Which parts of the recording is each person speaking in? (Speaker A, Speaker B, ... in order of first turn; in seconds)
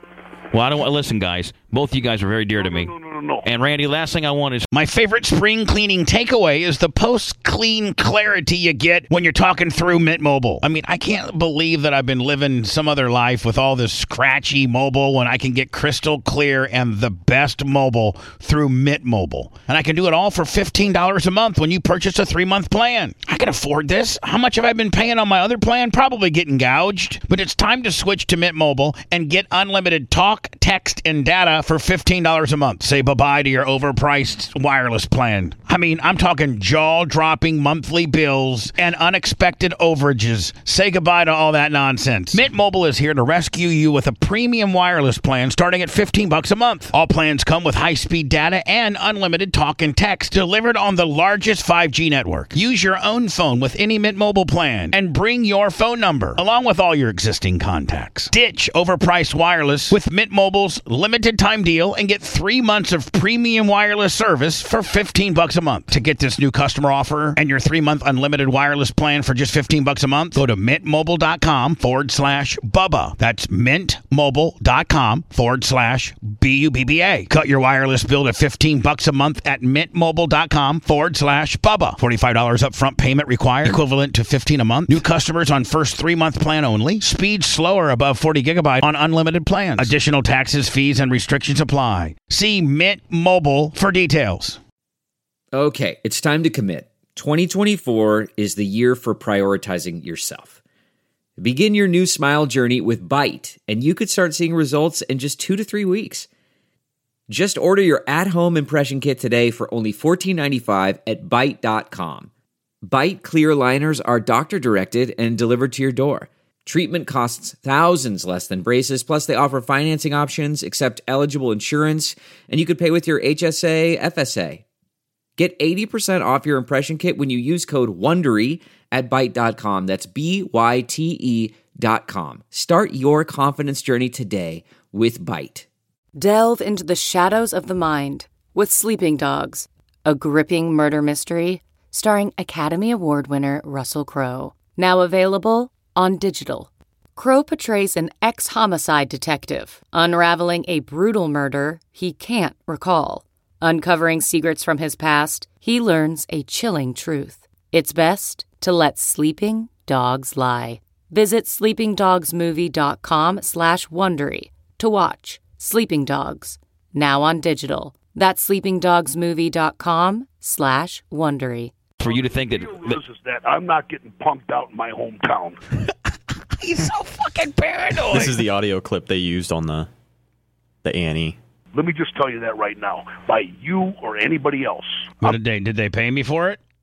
Speaker A: 0.5-2.9, 3.5-4.7, 172.0-173.0
Speaker B: 2.6-3.5, 172.0-175.6, 181.7-185.4
Speaker C: 4.7-94.6, 176.6-178.4, 185.2-186.6
Speaker D: 95.5-100.6, 101.4-106.3, 107.3-112.3, 112.8-124.6, 125.4-135.7
Speaker E: 136.2-171.8
Speaker F: 178.1-179.9, 180.8-181.4